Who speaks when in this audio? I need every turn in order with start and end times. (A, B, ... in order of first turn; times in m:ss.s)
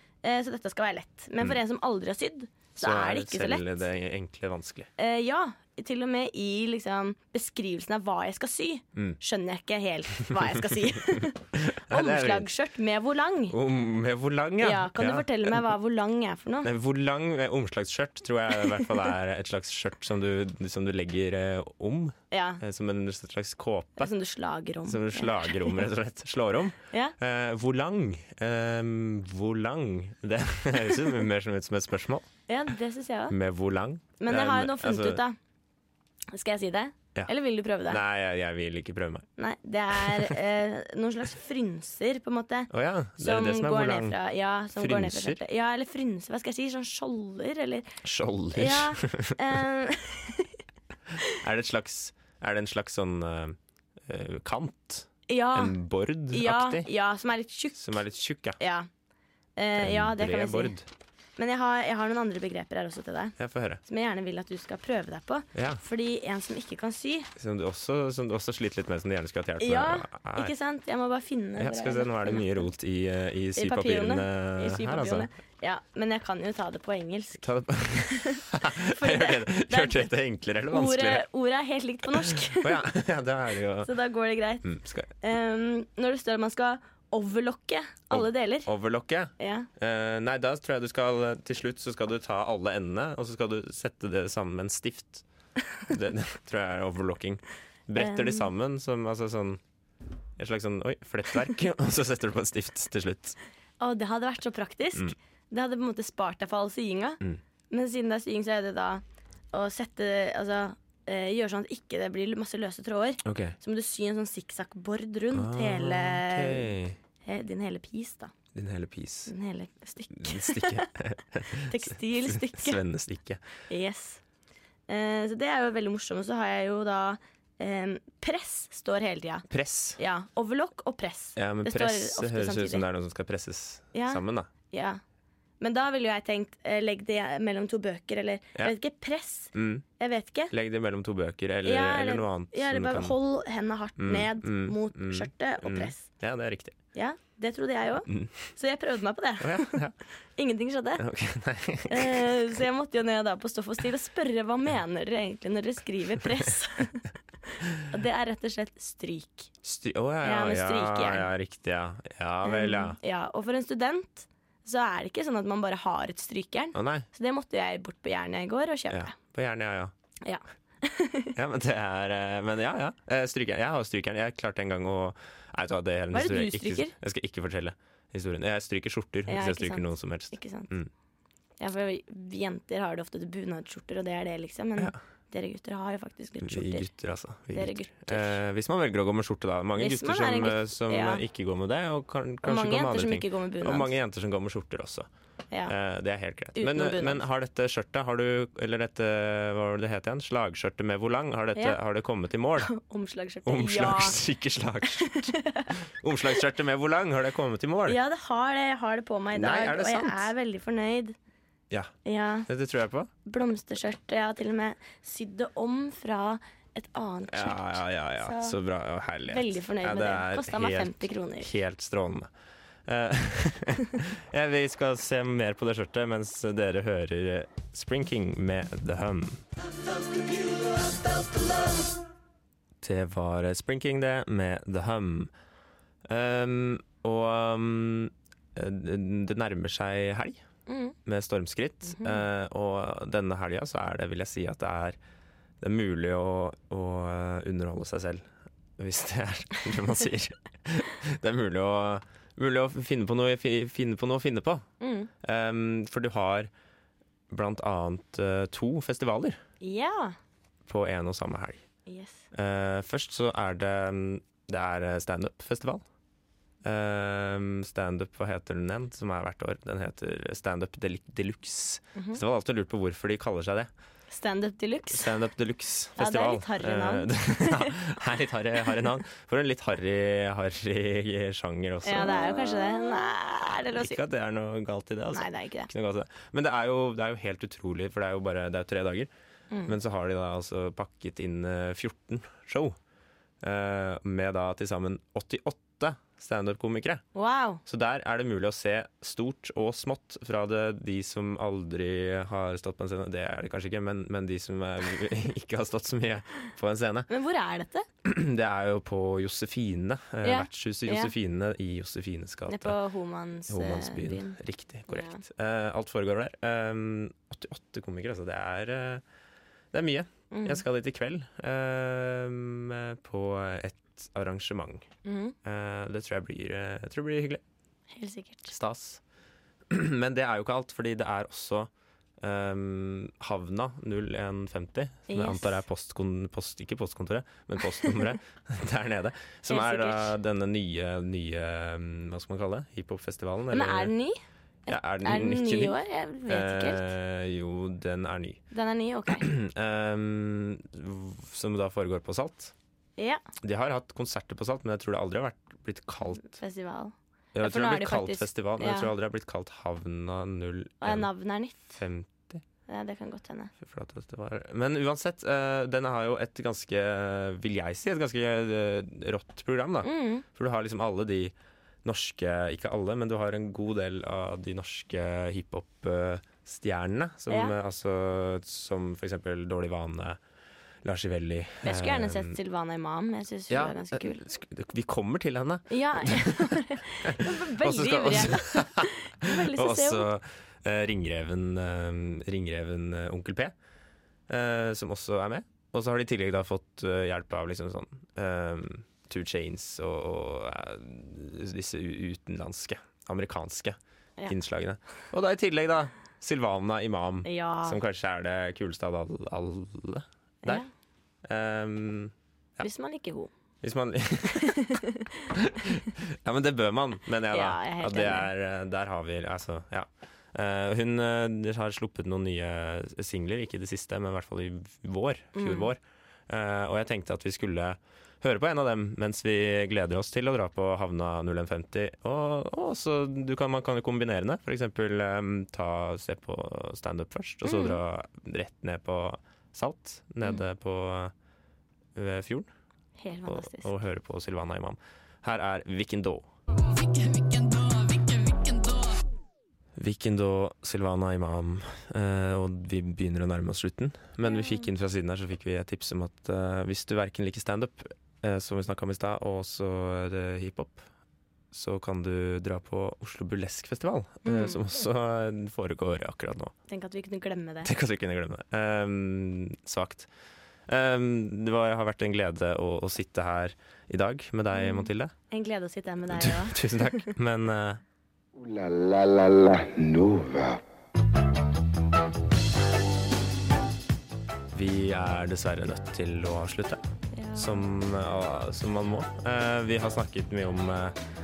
0:00.2-0:03.8 A
0:02.8-0:04.9 B
0:05.0-0:13.6 A
0:11.0-0:12.5 B
0:13.5-0:15.6 B
0:14.6-0:16.7 A
0:16.6-0:24.1 B
0:22.3-0:22.6 A
0:24.0-0:25.8 A
0:24.8-0:32.3 B
0:32.5-0:33.4 A
0:33.3-0:35.2 B
0:34.2-0:35.4 A
0:36.3-0:38.0 A
0:37.8-0:39.3 B
0:39.4-0:47.9 A
0:39.9-0:40.3 B
0:42.7-0:44.2 B
0:44.8-0:45.4 B
0:48.0-0:49.4 B
0:48.5-0:50.6 A
0:51.3-0:56.9 B
0:55.3-0:55.8 A
0:56.3-0:58.0 A
0:57.7-0:58.6 B
0:58.6-0:58.9 A
0:59.6-1:00.7 A
0:59.8-1:00.9 B
1:01.4-1:07.3 A
1:03.4-1:03.8 B
1:05.5-1:05.8 B
1:07.4-1:10.5 B
1:09.6-1:12.7 A
1:11.6-1:15.3 B
1:13.6-1:20.1 A
1:17.4-1:21.2 B
1:20.7-1:22.9 A
1:22.2-1:23.9 B
1:23.8-1:24.6 A
1:24.6-1:25.1 B
1:25.2-1:28.7 A
1:28.1-1:35.2 B
1:29.4-1:29.7 A
1:35.8-1:39.6 B
1:38.0-1:38.5 A
1:40.4-1:43.4 B
1:43.8-1:49.0 A
1:49.5-1:56.7 A
1:53.2-1:53.6 B
1:55.3-1:57.0 B
1:57.2-1:58.3 A
1:58.5-1:59.3 B
1:59.3-2:00.9 A
2:00.1-2:03.4 B
2:01.5-2:02.8 A
2:03.7-2:04.2 A
2:04.9-2:09.4 A
2:09.5-2:10.0 B
2:10.0-2:12.8 A
2:11.4-2:14.5 B
2:13.9-2:15.0 A
2:15.6-2:20.5 A
2:19.5-2:19.8 B
2:20.5-2:23.2 B
2:21.6-2:26.1 A
2:24.0-2:26.8 B
2:26.9-2:29.8 A
2:28.0-2:28.3 B
2:29.4-2:29.9 B
2:30.4-2:31.0 A
2:31.0-2:32.3 B
2:31.9-2:37.1 A
2:37.8-2:39.5 A
2:39.6-2:43.0 B
2:40.2-2:41.3 A
2:42.4-2:49.1 A
2:46.7-2:47.1 B
2:48.9-2:49.9 B
2:50.2-2:51.3 A
2:51.3-3:00.9 B
2:56.1-2:56.9 A
2:59.3-3:00.7 A
3:01.6-3:06.9 A
3:06.4-3:15.1 B
3:07.5-3:08.4 A
3:09.8-3:11.2 A
3:12.4-3:13.9 A
3:15.7-3:22.7 B
3:16.6-3:17.2 A
3:22.6-3:24.2 A
3:23.4-3:28.0 B
3:25.0-3:25.7 A
3:27.8-3:31.1 A
3:29.3-3:30.3 B
3:32.0-3:32.5 A
3:32.5-3:33.1 B
3:33.2-3:38.6 A
3:37.3-3:42.3 B
3:39.2-3:41.5 A
3:42.8-3:49.4 B
3:52.8-3:55.3 B
3:56.0-4:00.4 B
4:00.7-4:01.0 A
4:01.0-4:05.0 B
4:01.8-4:02.2 A
4:05.6-4:08.3 B
4:08.8-4:14.6 B
4:14.8-4:15.1 A
4:15.2-4:16.5 B
4:17.3-4:19.4 B
4:19.6-4:20.1 A
4:20.7-4:21.6 B
4:21.8-4:22.2 A
4:22.3-4:25.8 B
4:26.6-4:33.7 B
4:31.9-4:32.2 A
4:34.1-4:35.1 A
4:34.9-4:43.1 B
4:36.0-4:37.8 A
4:41.8-4:44.0 A
4:43.7-4:49.1 B
4:45.1-4:45.7 A
4:49.5-4:49.8 A
4:49.6-4:52.8 B
4:53.4-4:57.0 B
4:57.1-4:57.6 A
4:57.6-5:07.1 B
5:07.1-5:07.9 A
5:08.0-5:12.8 B
5:10.2-5:11.1 A
5:12.5-5:15.2 A
5:13.5-5:19.0 B
5:19.7-5:24.9 B
5:20.3-5:20.6 A
5:25.0-5:25.4 A
5:25.4-5:27.4 B
5:27.9-5:28.5 A
5:28.5-5:29.0 B
5:29.7-5:31.7 B
5:32.2-5:43.9 B
5:35.1-5:35.6 A
5:39.5-5:40.1 A
5:43.5-5:46.9 A
5:44.7-5:48.4 B
5:48.5-5:49.3 A
5:49.1-5:52.5 B
5:53.0-5:53.2 A
5:53.4-5:56.3 B
5:56.2-5:58.9 A
5:57.3-6:01.1 B
6:00.8-6:01.8 A
6:01.7-6:02.4 B
6:02.7-6:03.5 A
6:03.6-6:20.2 B
6:09.8-6:10.2 A
6:17.3-6:17.5 A
6:20.8-6:22.4 B
6:21.6-6:24.2 A
6:23.5-6:33.5 B
6:25.7-6:30.1 A
6:34.3-6:50.6 B
6:47.2-6:47.8 A
6:51.2-6:52.6 B
6:52.6-6:53.3 A
6:53.6-7:21.1 B
6:54.4-6:55.2 A
6:57.3-6:58.3 A
7:05.3-7:05.7 A
7:17.4-7:17.8 A
7:22.0-7:22.5 B
7:23.0-7:23.7 A
7:23.3-7:26.3 B
7:29.8-7:40.8 B
7:34.3-7:34.6 A
7:41.5-7:46.5 B
7:44.2-7:44.6 A
7:46.7-7:47.7 A
7:47.6-7:50.1 B
7:50.7-7:55.1 B
7:54.6-7:57.0 A
7:56.1-7:57.8 B
7:58.4-8:00.6 C
8:04.5-8:06.8 B
8:07.1-8:07.6 A
8:07.3-8:11.0 B